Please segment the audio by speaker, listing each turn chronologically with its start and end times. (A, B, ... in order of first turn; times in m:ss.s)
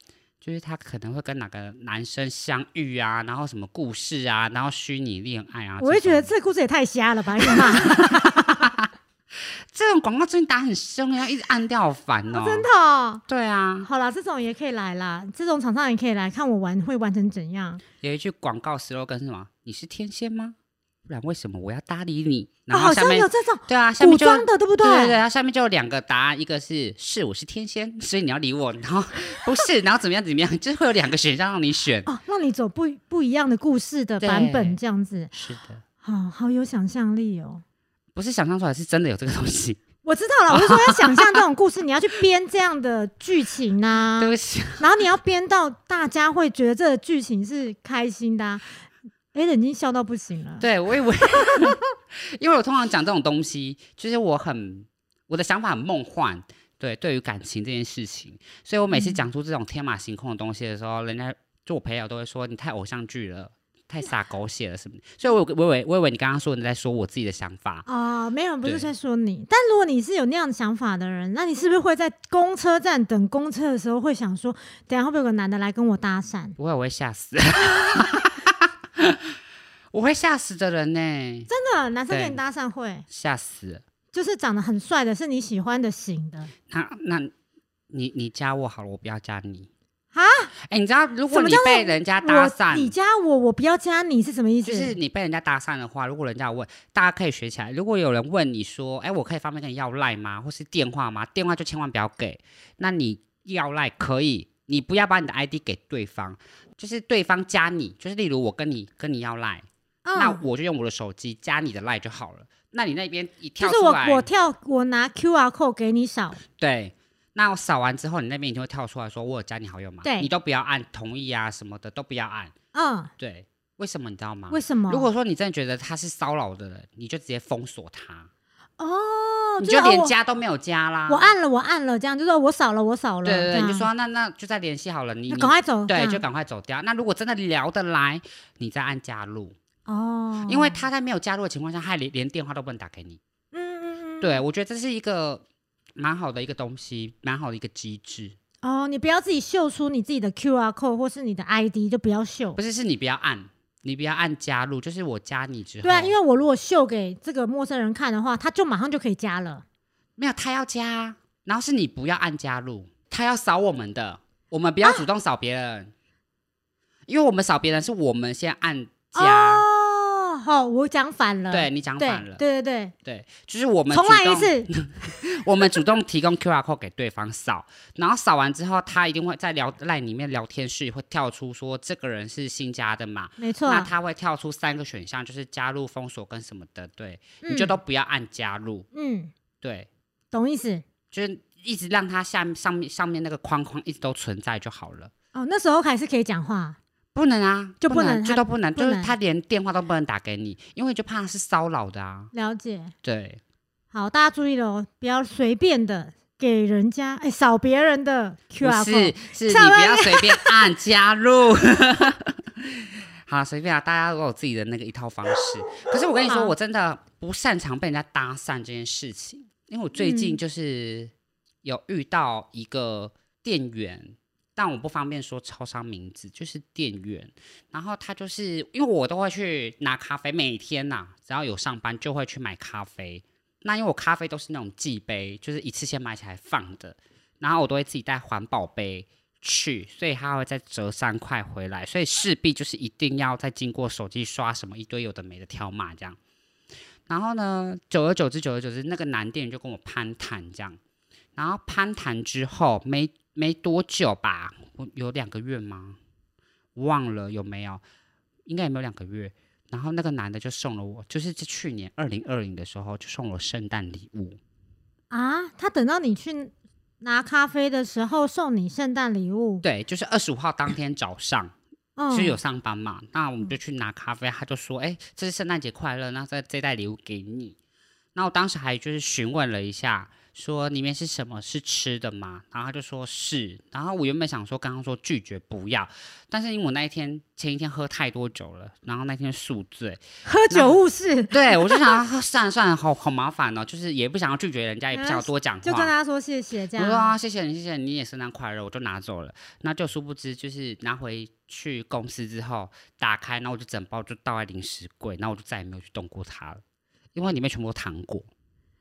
0:00.4-0:06.3 A
0:05.8-0:08.7 B
0:07.4-0:12.7 A
0:12.3-0:13.2 B
0:13.3-0:13.9 A
0:13.8-0:17.8 B
0:18.0-0:32.1 A
0:22.7-0:25.2 B
0:32.1-0:35.3 B
0:34.2-0:34.8 A
0:35.3-0:35.8 A
0:36.0-0:37.6 B
0:38.2-0:39.8 A
0:40.0-0:48.6 B
0:40.5-0:41.4 A
0:44.2-0:44.9 A
0:49.3-0:50.7 B
0:50.6-1:07.8 A
0:51.5-0:51.7 B
0:58.9-0:59.2 B
1:07.9-1:16.6 B
1:16.6-1:19.4 A
1:19.9-1:21.5 A
1:21.5-1:23.1 B
1:22.1-1:22.4 A
1:23.1-1:23.8 A
1:24.1-1:26.5 B
1:26.7-1:27.3 A
1:27.9-1:29.7 A
1:30.1-1:30.5 B
1:30.6-1:32.9 A
1:31.3-1:35.0 B
1:34.6-1:54.3 A
1:50.0-1:50.4 B
1:53.6-1:56.4 B
1:56.5-2:02.5 A
2:00.0-2:00.3 B
2:02.7-2:03.1 B
2:03.2-2:08.3 A
2:04.5-2:05.1 B
2:08.8-2:10.1 B
2:09.6-2:11.3 A
2:11.1-2:13.9 B
2:13.2-2:19.6 A
2:15.3-2:16.2 B
2:19.9-2:20.8 B
2:20.5-2:23.2 A
2:23.5-2:24.4 B
2:24.2-2:25.4 A
2:26.0-2:28.4 A
2:28.6-2:32.6 B
2:32.6-2:36.2 A
2:35.8-2:39.6 B
2:40.2-2:45.9 A
2:47.1-2:49.6 A
2:49.2-2:52.9 B
2:51.5-2:52.4 A
2:53.0-3:08.9 A
2:53.9-2:55.2 B
3:03.4-3:03.9 B
3:07.4-3:07.8 B
3:08.9-3:09.3 B
3:09.6-3:09.9 A
3:10.3-3:10.8 B
3:11.1-3:15.1 A
3:15.4-3:16.8 B
3:17.1-3:22.3 A
3:17.8-3:19.1 B
3:22.3-3:22.9 B
3:23.0-3:23.4 A
3:23.9-3:30.7 B
3:28.6-3:41.1 A
3:36.3-3:36.5 B
3:40.0-3:40.4 B
3:41.6-4:06.2 A
4:07.1-4:10.8 A
4:11.4-4:16.0 A
4:16.8-4:17.8 A
4:18.5-4:24.4 A
4:25.1-4:29.6 B
4:29.6-4:31.5 A
4:32.0-4:32.4 B
4:32.1-4:37.6 A
4:38.2-4:50.8 A
4:50.3-4:52.0 B
4:51.3-4:55.9 A
4:54.9-4:57.1 B
4:56.8-5:06.6 A
5:07.2-5:08.3 A